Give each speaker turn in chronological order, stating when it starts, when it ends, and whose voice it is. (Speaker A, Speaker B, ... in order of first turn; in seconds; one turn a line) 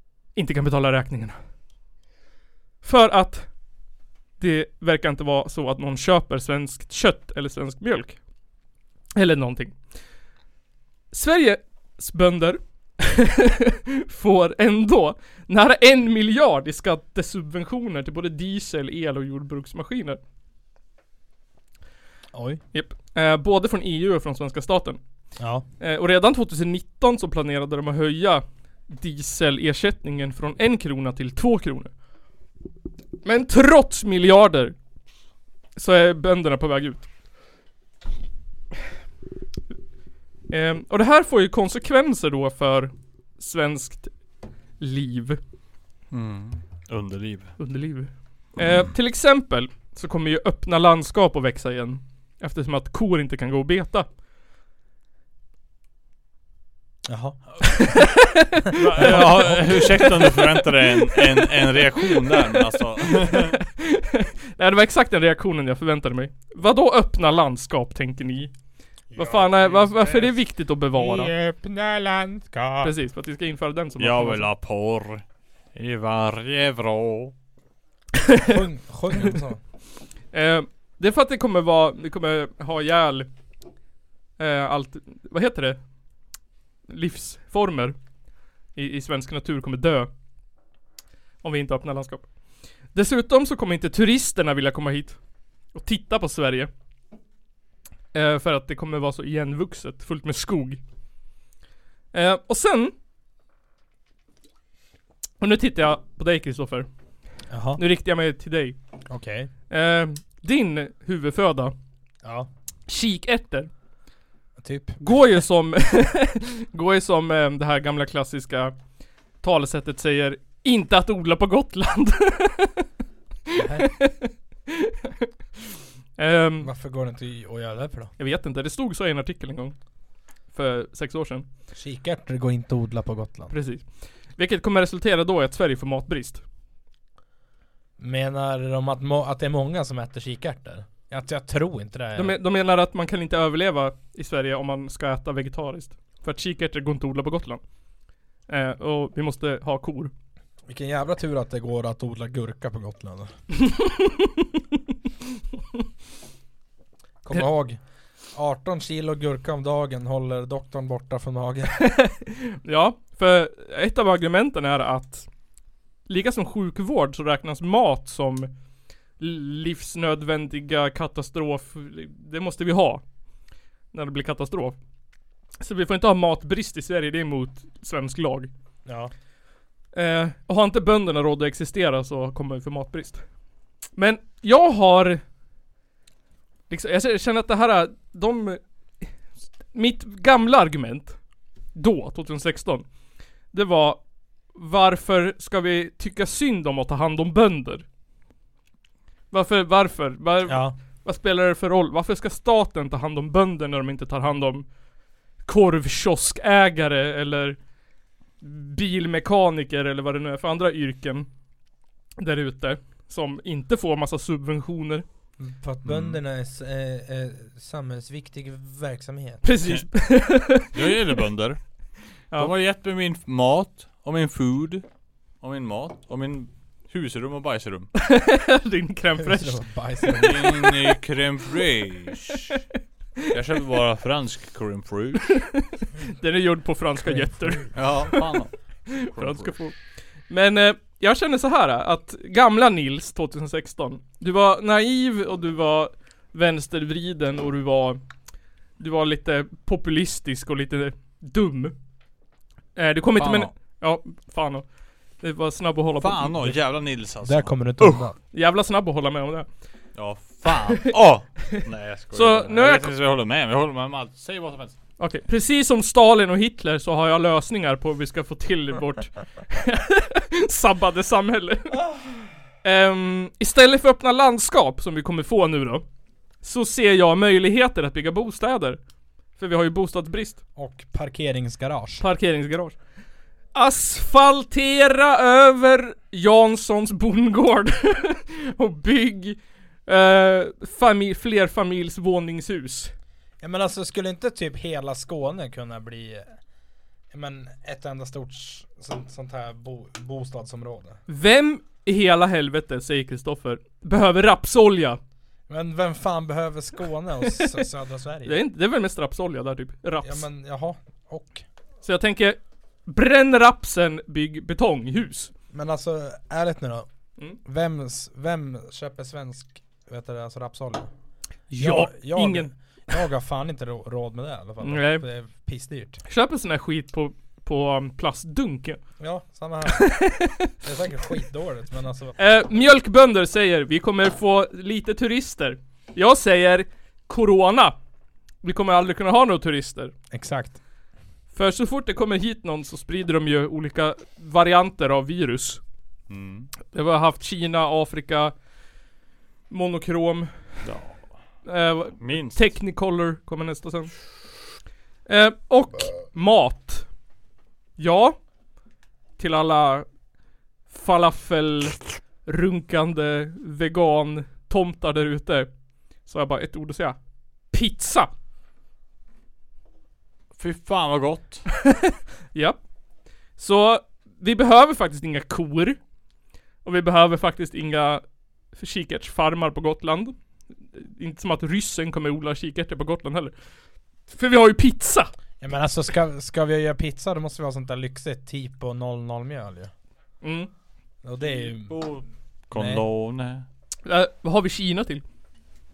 Speaker A: 0.3-1.4
Speaker A: 2.8-3.5
Speaker A: 4.4-8.2
Speaker A: 9.2-9.8
Speaker A: 11.1-20.2
Speaker B: 22.3-22.6
Speaker A: 22.7-25.0
Speaker B: 25.4-25.6
Speaker A: 25.8-31.9
Speaker A: 33.2-34.7
Speaker A: 35.8-37.1
Speaker A: 40.5-44.1
Speaker A: 44.8-45.4
Speaker C: 46.1-47.5
Speaker A: 47.6-54.1
Speaker B: 57.0-57.9
Speaker A: 57.6-68.5
Speaker C: 58.7-63.6
Speaker B: 59.0-59.5
Speaker B: 69.1-70.3
Speaker A: 69.2-71.3
Speaker B: 70.9-72.9
Speaker A: 72.8-74.5
Speaker C: 74.0-75.2
Speaker C: 75.7-77.3
Speaker A: 78.2-78.6
Speaker B: 78.4-79.6
Speaker A: 80.3-83.3
Speaker A: 84.4-85.8
Speaker A: 86.9-88.0
Speaker A: 88.7-90.1
Speaker A: 91.4-92.3
Speaker A: 92.9-95.2
Speaker A: 95.7-96.7
Speaker A: 98.1-100.8
Speaker A: 102.1-102.9
Speaker A: 105.4-106.9
Speaker B: 107.5-107.8
Speaker A: 107.8-108.8
Speaker B: 109.1-109.5
Speaker A: 109.7-111.7
Speaker B: 112.2-112.5
Speaker A: 112.9-113.7
Speaker B: 114.6-115.0
Speaker A: 115.0-118.7
Speaker A: 119.4-122.8
Speaker A: 123.5-125.3
Speaker B: 123.5-123.9
Speaker A: 126.2-126.7
Speaker B: 126.6-128.1
Speaker A: 128.2-129.8
Speaker A: 130.5-131.4
Speaker B: 131.7-133.5
Speaker A: 133.5-133.8
Speaker A: 134.3-136.4
Speaker B: 138.0-142.3
Speaker A: 142.2-147.6
Speaker A: 148.5-150.1
Speaker B: 150.7-153.3
Speaker A: 153.6-154.4
Speaker B: 157.2-157.8
Speaker B: 158.3-161.8
Speaker A: 161.9-165.3
Speaker A: 166.1-168.5
Speaker A: 169.2-173.0
Speaker A: 173.9-174.8
Speaker A: 175.6-178.5
Speaker B: 178.8-179.1
Speaker A: 179.9-183.2
Speaker A: 183.9-185.2
Speaker A: 186.7-188.6
Speaker A: 189.7-191.2
Speaker A: 191.7-192.8
Speaker A: 193.5-194.0
Speaker A: 194.5-197.8
Speaker A: 199.3-204.7
Speaker B: 200.5-200.8
Speaker A: 205.4-207.6
Speaker A: 208.4-211.3
Speaker A: 212.2-215.0
Speaker B: 215.4-219.5
Speaker C: 215.8-216.2
Speaker A: 219.4-220.7
Speaker C: 220.7-221.6
Speaker C: 222.3-224.8
Speaker C: 225.4-227.9
Speaker A: 227.9-230.2
Speaker B: 229.2-230.7
Speaker C: 230.2-232.6
Speaker C: 233.3-235.4
Speaker A: 235.4-238.4
Speaker B: 237.0-237.7
Speaker C: 237.7-239.6
Speaker A: 238.9-239.8
Speaker A: 240.3-248.0
Speaker A: 248.8-251.7
Speaker A: 252.8-254.7
Speaker C: 253.2-253.5
Speaker A: 255.2-256.4
Speaker C: 256.0-258.0
Speaker B: 257.2-258.1
Speaker A: 258.3-259.5
Speaker C: 259.9-264.8
Speaker A: 262.1-262.9
Speaker A: 265.0-271.8
Speaker B: 271.7-272.2
Speaker A: 272.6-275.8
Speaker A: 276.4-278.8
Speaker A: 279.4-280.4
Speaker B: 280.6-282.0
Speaker A: 282.0-282.8
Speaker A: 283.5-292.9
Speaker B: 293.4-296.3
Speaker B: 297.1-301.0
Speaker A: 301.1-305.0
Speaker B: 305.5-308.4
Speaker A: 307.3-307.6
Speaker A: 308.2-310.2
Speaker B: 310.0-311.4
Speaker A: 311.8-315.3
Speaker B: 315.5-316.9
Speaker B: 317.4-320.9
Speaker A: 321.5-322.5
Speaker B: 321.6-326.0
Speaker A: 324.6-325.0
Speaker A: 326.1-328.8
Speaker B: 329.0-330.0
Speaker A: 329.7-330.5
Speaker B: 330.6-332.2
Speaker A: 332.2-337.8
Speaker A: 338.4-339.9
Speaker B: 340.1-340.6
Speaker A: 341.3-345.6
Speaker C: 346.1-346.5
Speaker A: 346.7-348.3
Speaker A: 349.5-350.6
Speaker C: 350.6-351.1
Speaker A: 351.4-354.0
Speaker C: 352.0-352.5
Speaker A: 355.1-356.9
Speaker A: 357.8-358.2
Speaker A: 359.2-359.9
Speaker A: 360.7-365.5
Speaker A: 366.0-367.0
Speaker A: 367.5-368.1
Speaker C: 370.4-371.4
Speaker A: 372.3-372.6
Speaker A: 373.4-375.8
Speaker A: 376.6-380.1
Speaker A: 380.7-383.3
Speaker A: 384.1-385.1
Speaker B: 385.4-389.7
Speaker A: 390.2-390.5
Speaker B: 391.0-391.9
Speaker C: 391.3-393.4
Speaker B: 392.5-392.8
Speaker A: 393.8-395.0